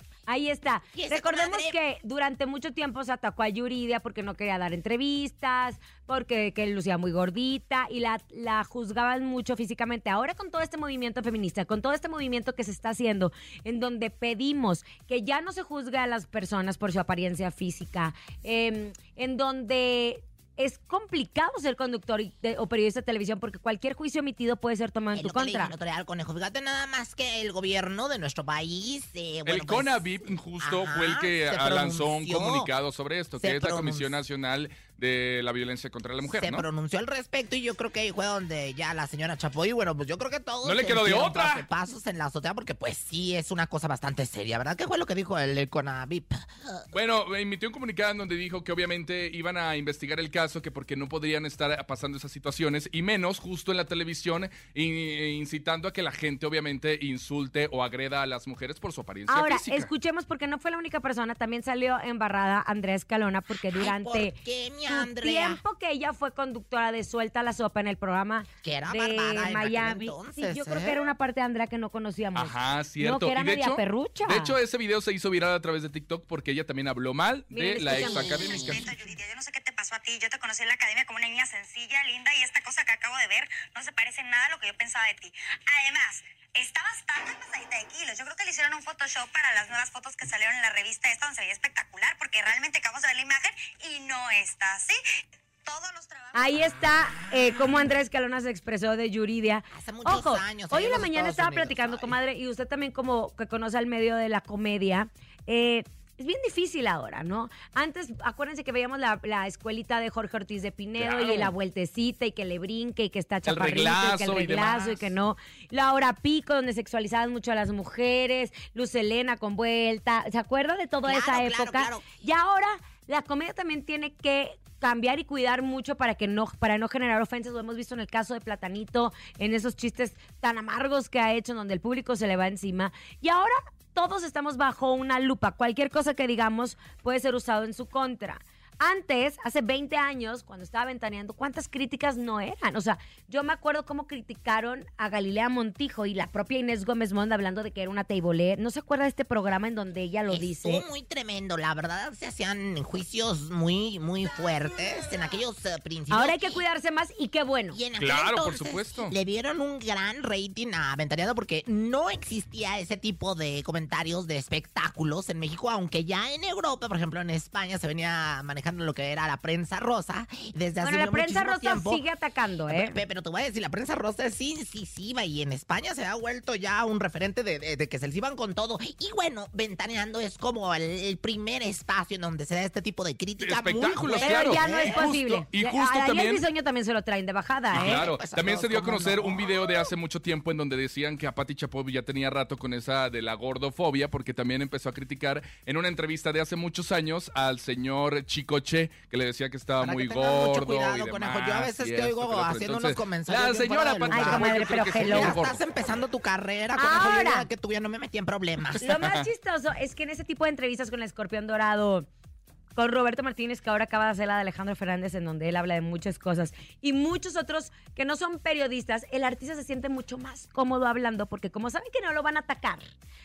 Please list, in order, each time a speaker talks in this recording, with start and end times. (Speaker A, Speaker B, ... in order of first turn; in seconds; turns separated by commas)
Speaker A: 0.3-25.7, Speaker B: 0.9-1.8, Speaker B: 25.1-30.0, Speaker C: 29.4-36.6, Speaker B: 30.6-32.7, Speaker B: 33.4-34.1, Speaker B: 36.3-46.8, Speaker C: 40.6-41.6, Speaker C: 46.9-59.9, Speaker A: 59.3-74.5, Speaker B: 63.5-65.6, Speaker B: 68.6-71.0, Speaker C: 72.3-78.9, Speaker A: 77.5-78.4, Speaker B: 77.9-78.8, Speaker D: 78.5-95.0, Speaker D: 95.7-96.9, Speaker A: 96.3-150.8, Speaker B: 99.7-102.2, Speaker C: 111.0-111.5, Speaker C: 113.5-115.0, Speaker B: 121.0-122.1, Speaker B: 150.3-156.6, Speaker A: 156.1-157.8, Speaker B: 157.7-172.0, Speaker C: 158.0-159.1, Speaker A: 170.8-173.0, Speaker B: 172.7-185.1, Speaker C: 183.4-186.4, Speaker A: 184.2-188.1, Speaker B: 187.7-189.6, Speaker C: 187.7-205.6, Speaker B: 199.8-208.8, Speaker A: 204.1-205.4, Speaker A: 206.8-207.5, Speaker A: 208.8-212.1, Speaker C: 208.8-209.2, Speaker A: 212.8-222.9